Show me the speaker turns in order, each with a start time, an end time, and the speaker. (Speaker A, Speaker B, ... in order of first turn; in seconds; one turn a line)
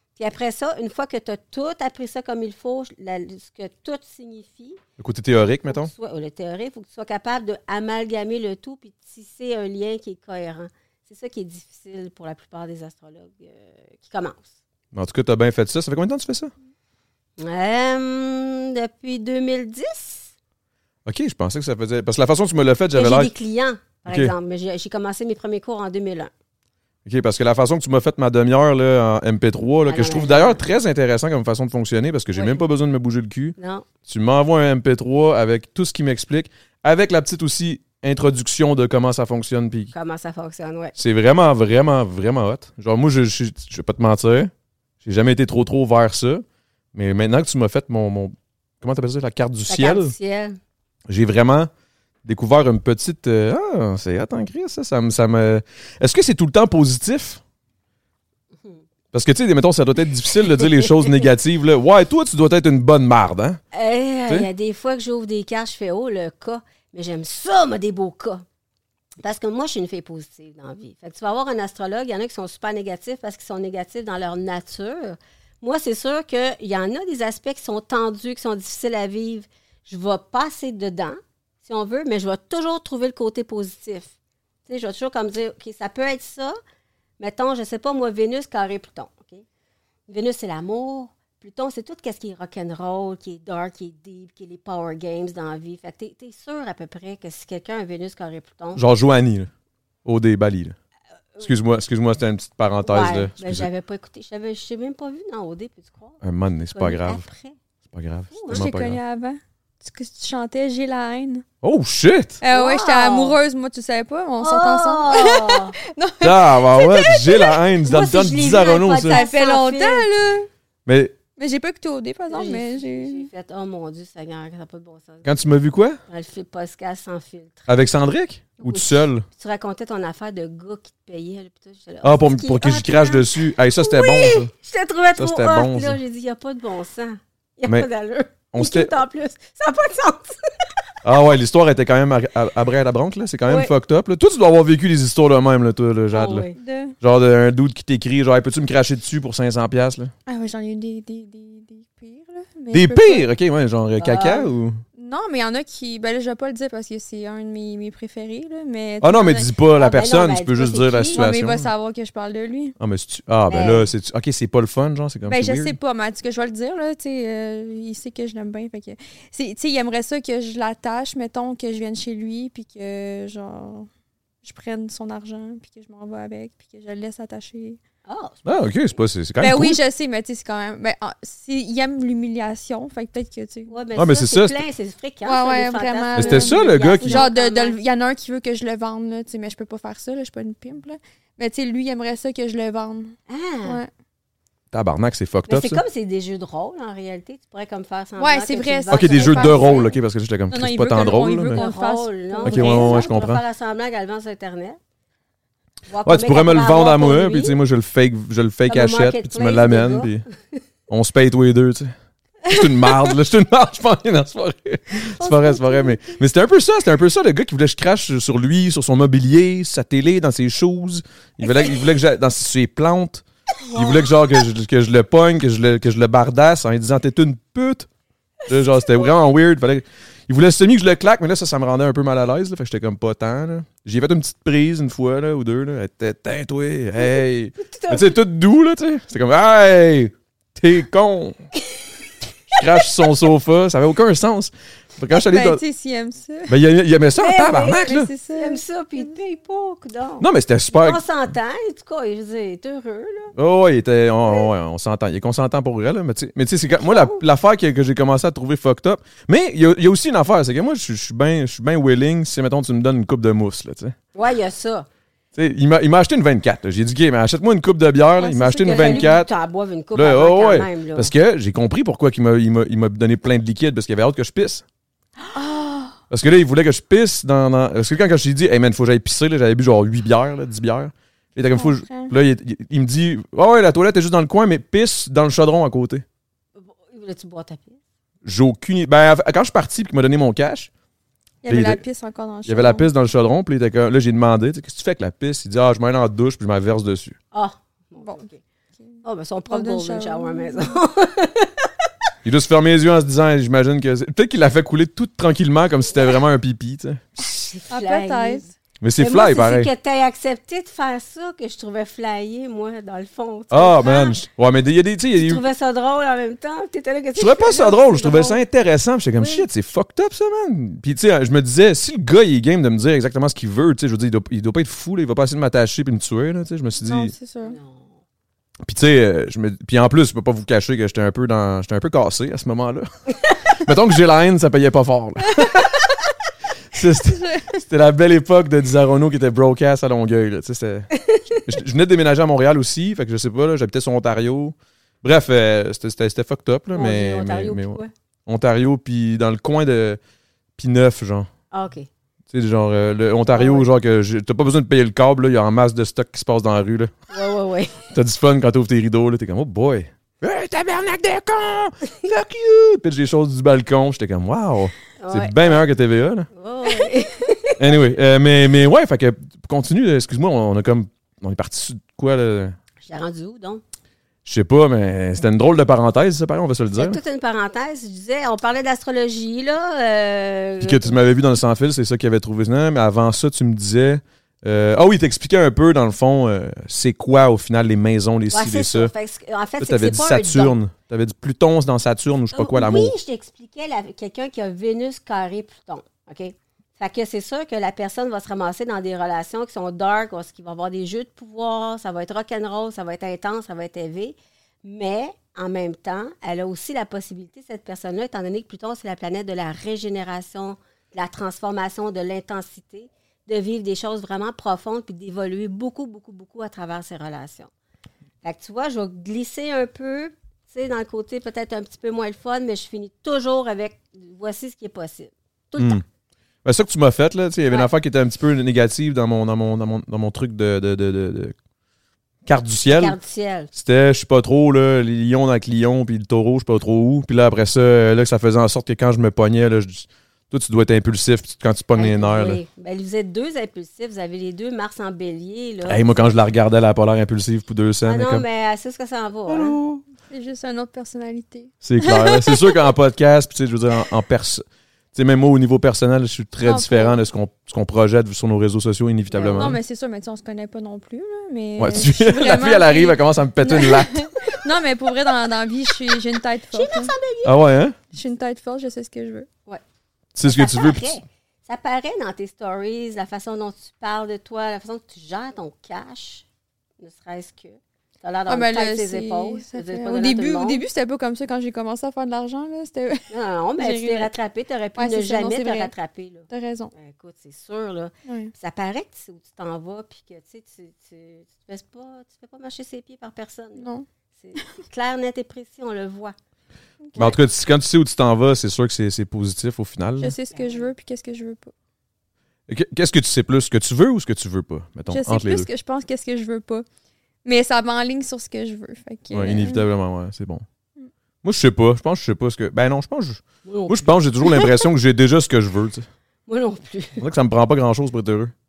Speaker A: 0.2-4.8
Speaker B: 5.0-5.9
Speaker A: 5.7-14.6
Speaker B: 14.9-16.5
Speaker A: 17.4-20.3
Speaker B: 21.1-23.3
Speaker A: 22.9-26.3
Speaker B: 24.1-24.3
Speaker B: 27.1-33.6
Speaker A: 29.9-30.6
Speaker A: 32.3-32.6
Speaker A: 33.6-33.9
Speaker B: 34.1-39.9
Speaker A: 39.9-41.0
Speaker B: 41.0-44.5
Speaker B: 45.0-50.1
Speaker A: 49.7-50.6
Speaker B: 51.1-51.7
Speaker B: 52.2-57.4
Speaker B: 59.1-63.6
Speaker A: 60.6-61.1
Speaker A: 63.7-68.5
Speaker A: 69.2-84.1
Speaker A: 84.7-86.6
Speaker A: 87.2-89.4
Speaker A: 90.1-98.8
Speaker B: 98.8-99.5
Speaker B: 100.0-100.8
Speaker B: 101.4-103.7
Speaker A: 102.9-106.2
Speaker B: 106.2-107.2
Speaker A: 106.7-107.6
Speaker B: 107.9-109.0
Speaker A: 108.3-108.7
Speaker C: 108.5-111.5
Speaker B: 111.6-112.4
Speaker C: 112.4-117.6
Speaker A: 112.5-113.4
Speaker A: 114.4-115.8
Speaker B: 116.2-119.2
Speaker A: 117.9-120.1
Speaker C: 119.1-120.5
Speaker B: 120.9-121.2
Speaker C: 121.4-123.3
Speaker A: 122.3-125.3
Speaker B: 125.2-126.0
Speaker A: 126.1-127.7
Speaker B: 127.7-129.3
Speaker A: 128.6-133.3
Speaker B: 132.0-134.5
Speaker A: 133.8-140.4
Speaker B: 135.2-136.0
Speaker B: 138.5-138.9
Speaker B: 141.0-146.5
Speaker A: 143.5-143.7
Speaker A: 146.1-146.6
Speaker C: 146.6-146.9
Speaker B: 147.0-150.1
Speaker C: 150.3-153.3
Speaker B: 152.7-154.8
Speaker A: 154.0-154.5
Speaker C: 155.0-159.4
Speaker B: 159.0-161.7
Speaker A: 159.8-161.2
Speaker C: 161.2-162.8
Speaker B: 162.8-165.8
Speaker A: 163.5-163.9
Speaker C: 165.3-173.9
Speaker C: 174.4-177.8
Speaker A: 178.1-178.9
Speaker B: 178.5-179.8
Speaker C: 179.4-183.7
Speaker A: 183.7-187.8
Speaker B: 183.9-184.6
Speaker C: 185.2-193.9
Speaker B: 186.1-187.3
Speaker A: 193.3-193.8
Speaker B: 194.7-195.8
Speaker A: 195.5-199.9
Speaker C: 198.2-199.9
Speaker B: 198.9-201.6
Speaker C: 200.5-203.1
Speaker A: 201.5-204.8
Speaker B: 202.4-203.4
Speaker A: 205.9-207.6
Speaker B: 206.1-210.2
Speaker A: 208.7-210.6
Speaker B: 210.9-211.9
Speaker B: 212.5-223.2
Speaker A: 215.2-216.2
Speaker A: 221.4-221.8
Speaker A: 223.7-224.4
Speaker B: 223.8-227.9
Speaker A: 228.5-229.1
Speaker B: 228.5-241.4
Speaker A: 237.0-238.2
Speaker B: 242.5-245.6
Speaker C: 245.1-246.5
Speaker B: 246.5-248.1
Speaker A: 247.2-253.3
Speaker C: 247.8-249.1
Speaker B: 250.2-251.0
Speaker B: 253.4-264.0
Speaker A: 256.7-257.2
Speaker A: 264.1-264.9
Speaker B: 265.4-269.3
Speaker C: 268.2-269.1
Speaker A: 268.6-271.1
Speaker B: 269.9-274.6
Speaker C: 275.3-275.9
Speaker B: 276.1-286.0
Speaker C: 281.5-282.1
Speaker A: 286.6-287.8
Speaker B: 288.2-290.7
Speaker C: 291.4-292.9
Speaker B: 291.5-291.8
Speaker B: 292.4-297.2
Speaker A: 297.3-298.4
Speaker C: 298.8-300.8
Speaker A: 299.0-301.7
Speaker B: 302.2-307.3
Speaker A: 307.2-314.2
Speaker C: 307.7-308.5
Speaker B: 308.8-309.7
Speaker B: 313.5-315.4
Speaker A: 315.2-318.4
Speaker B: 317.2-327.1
Speaker A: 319.2-319.5
Speaker C: 326.8-327.6
Speaker A: 327.4-328.0
Speaker B: 328.6-332.9
Speaker B: 333.6-335.7
Speaker B: 336.7-350.0
Speaker C: 337.1-337.6
Speaker A: 341.0-341.4
Speaker A: 346.7-347.9
Speaker B: 350.6-351.3
Speaker A: 351.5-351.9
Speaker B: 352.3-356.9
Speaker A: 353.3-353.7
Speaker A: 357.1-357.9
Speaker B: 357.9-366.3
Speaker A: 365.0-365.6
Speaker A: 366.3-367.8
Speaker B: 367.6-372.6
Speaker A: 372.8-373.6
Speaker B: 374.2-377.0
Speaker A: 376.8-381.0
Speaker B: 380.6-388.9
Speaker A: 388.3-390.6
Speaker B: 389.6-393.0
Speaker A: 392.3-417.5
Speaker A: 418.2-425.8
Speaker B: 425.6-425.8
Speaker B: 426.4-431.3
Speaker B: 432.3-433.0
Speaker A: 432.7-433.5
Speaker B: 433.5-442.4
Speaker A: 441.8-446.1
Speaker B: 445.6-448.2
Speaker A: 447.9-449.6
Speaker B: 449.3-449.8
Speaker C: 450.1-452.6
Speaker B: 451.6-459.6
Speaker C: 456.4-457.0
Speaker A: 459.1-459.6
Speaker C: 459.4-466.9
Speaker B: 461.6-464.0
Speaker A: 466.5-467.4
Speaker B: 467.2-467.8
Speaker C: 467.9-469.3
Speaker B: 470.1-471.0
Speaker A: 470.2-476.2
Speaker A: 476.8-480.6
Speaker C: 478.3-484.1
Speaker A: 483.1-496.1
Speaker C: 484.8-485.7
Speaker C: 486.3-486.7
Speaker C: 488.1-488.3
Speaker C: 493.6-493.9
Speaker C: 496.8-497.2
Speaker B: 497.0-500.1
Speaker C: 500.0-501.5
Speaker A: 500.3-500.7
Speaker B: 502.5-505.5
Speaker C: 504.9-506.6
Speaker C: 507.2-509.6
Speaker B: 509.1-510.4
Speaker B: 511.2-515.9
Speaker A: 513.5-513.9
Speaker A: 516.3-517.0
Speaker B: 517.0-518.3